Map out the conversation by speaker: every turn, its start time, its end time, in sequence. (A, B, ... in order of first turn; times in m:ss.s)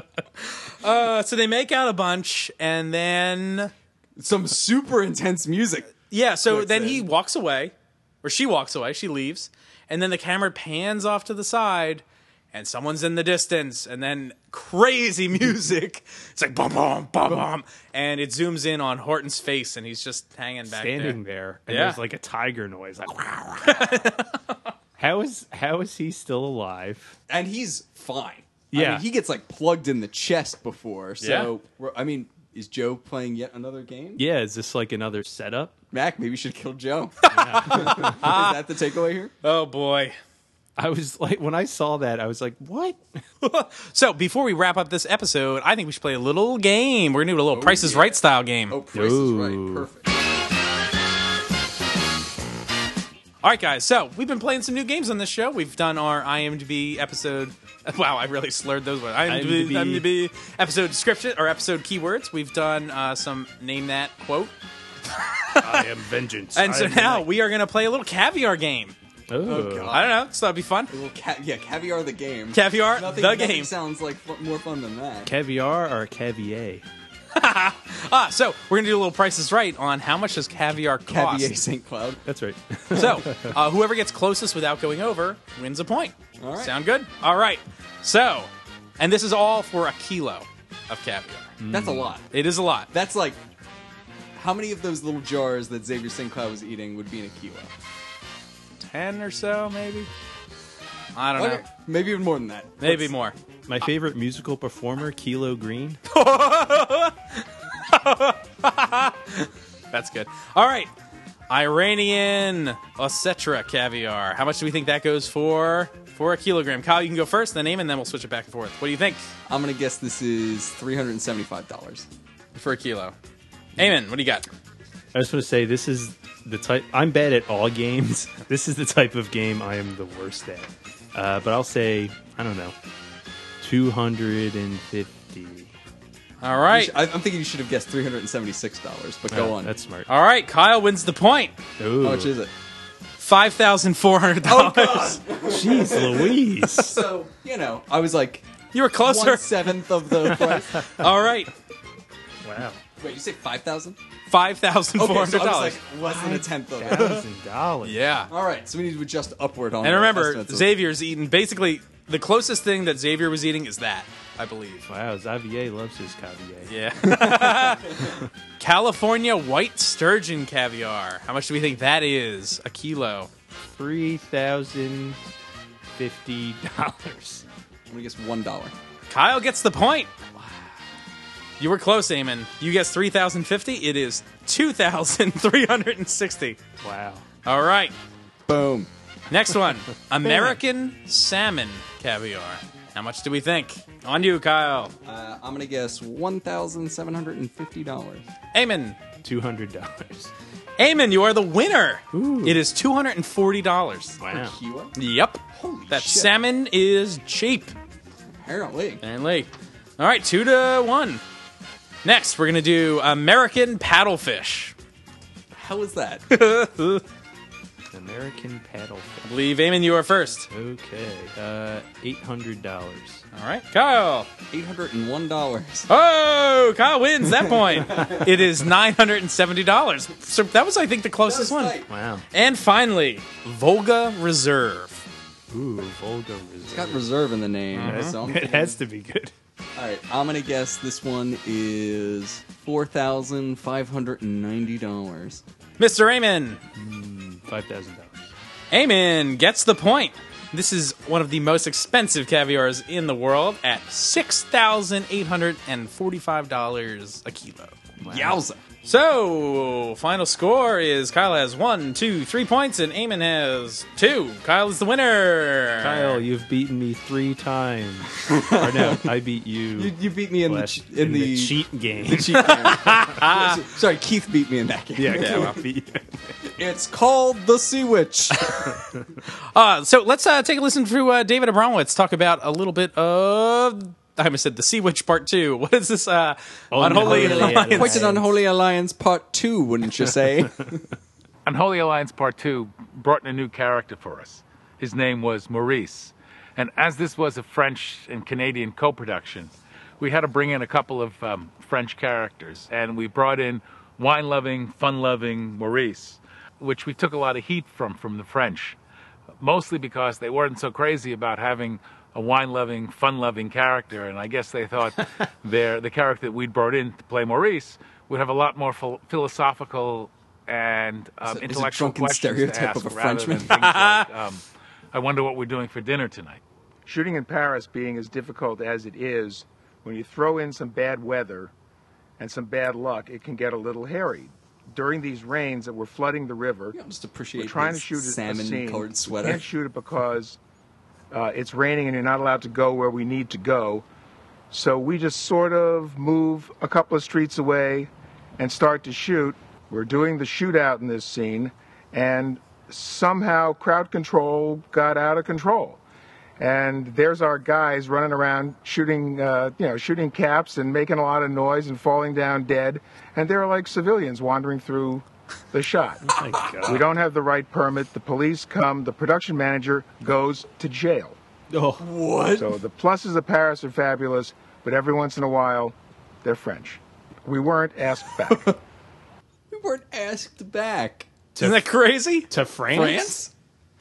0:00.4-0:03.7 A
0:04.2-0:06.0 B
0:06.1-0:22.0 A
0:06.5-0:07.0 B
0:20.7-0:23.9 C
0:23.6-0:24.4 A
0:25.0-0:27.2 C
0:27.3-0:34.2 B
0:28.7-0:29.0 C
0:31.2-0:31.5 A
0:34.2-0:35.7 C
0:35.9-0:39.3 B
0:37.3-0:38.6 A
0:37.3-0:38.2 C
0:39.4-0:40.2 A
0:40.8-0:43.2 C
0:43.4-0:48.8 A
0:47.5-0:50.1 B
0:48.9-0:49.9 C
0:53.4-1:04.5 A
0:59.3-1:00.0 C
1:05.3-1:05.9 A
1:05.6-1:07.3 C
1:06.5-1:08.9 A
1:09.3-1:09.9 C
1:09.4-1:10.2 B
1:09.9-1:10.9 A
1:10.9-1:15.3 B
1:12.5-1:13.7 A
1:15.2-1:16.8 C
1:17.3-1:21.6 A
1:21.1-1:22.2 B
1:22.2-1:23.6 C
1:22.9-1:23.2 B
1:23.0-1:31.5 A
1:26.4-1:26.7 B
1:31.6-1:32.1 C
1:31.7-1:32.3 B
1:32.3-1:32.9 A
1:32.9-1:33.4 B
1:34.4-1:37.7 B
1:38.8-1:40.1 A
1:41.1-1:41.6 A
1:41.4-1:43.1 B
1:42.8-1:43.3 A
1:43.7-1:46.0 C
1:46.1-1:50.9 A
1:51.5-1:59.2 A
1:59.5-2:02.0 B
2:02.5-2:03.1 A
2:03.8-2:04.5 A
2:05.1-2:12.7 C
2:13.6-2:15.7 C
2:16.4-2:17.0 A
2:16.7-2:19.7 B
2:19.3-2:20.1 C
2:20.1-2:21.6 A
2:21.8-2:22.3 C
2:22.0-2:22.5 B
2:23.2-2:25.2 A
2:24.4-2:28.5 B
2:25.5-2:27.0 C
2:28.7-2:31.5 A
2:29.0-2:30.9 B
2:32.4-2:32.8 C
2:33.0-2:34.0 B
2:34.3-2:35.8 A
2:34.9-2:37.2 B
2:36.0-2:38.0 C
2:37.8-2:38.3 A
2:38.3-2:40.7 B
2:39.8-2:44.8 A
2:44.8-2:46.7 C
2:46.7-2:48.0 A
2:47.1-2:48.1 B
2:48.6-2:53.3 A
2:53.7-2:55.2 C
2:56.0-2:57.4 C
2:57.9-2:58.7 B
2:59.1-3:00.1 A
3:01.6-3:06.6 A
3:06.8-3:07.2 C
3:07.4-3:07.9 A
3:08.5-3:08.9 B
3:09.3-3:14.9 A
3:10.2-3:10.6 C
3:15.0-3:18.2 B
3:18.5-3:19.0 A
3:19.2-3:20.3 C
3:20.8-3:24.2 A
3:22.1-3:22.6 C
3:24.2-3:24.5 C
3:24.3-3:24.9 B
3:25.0-3:27.7 A
3:25.5-3:26.3 B
3:28.4-3:29.0 B
3:29.0-3:31.2 A
3:32.0-3:34.7 A
3:35.5-3:36.3 B
3:36.3-3:37.0 A
3:37.9-3:39.3 C
3:39.2-3:40.5 A
3:40.5-3:43.2 C
3:43.3-3:44.3 A
3:44.5-3:45.9 B
3:45.9-3:51.8 A
3:47.5-3:48.2 B
3:51.2-3:51.9 B
3:51.9-3:52.2 C
3:52.3-3:55.0 A
3:55.5-3:57.0 C
3:56.6-3:58.8 B
3:57.7-3:58.1 A
3:57.8-3:59.3 C
3:59.8-4:05.4 B
4:05.8-4:06.6 A
4:06.7-4:08.3 C
4:08.7-4:17.8 A
4:18.0-4:18.4 C
4:18.0-4:18.6 B
4:18.8-4:26.2 A
4:25.8-4:29.9 C
4:28.3-4:29.1 B
4:29.8-4:35.6 B
4:30.4-4:33.0 C
4:32.4-4:33.6 A
4:35.0-4:36.4 C
4:35.2-4:35.6 A
4:36.4-4:38.6 B
4:38.6-4:39.0 C
4:39.5-4:48.1 A
4:46.7-4:48.3 C
4:46.9-4:50.8 B
4:51.4-5:08.8 D
5:09.4-5:26.4 D
5:21.2-5:23.6 B
5:23.5-5:24.1 A
5:26.8-5:31.5 E
5:32.2-5:36.8 E
5:36.7-5:39.4 B
5:37.4-5:40.4 E
5:41.1-5:43.8 E
5:44.5-5:55.8 E
5:56.4-6:06.0 E
6:06.1-6:06.8 C
6:06.6-6:11.2 E
6:11.5-6:11.8 C
6:11.8-6:12.6 B
6:12.4-6:18.5 E
6:18.3-6:18.6 B
6:19.5-6:21.1 B
6:21.3-6:21.6 C
6:21.4-6:22.3 A
6:22.3-6:23.1 C
6:22.7-6:23.3 B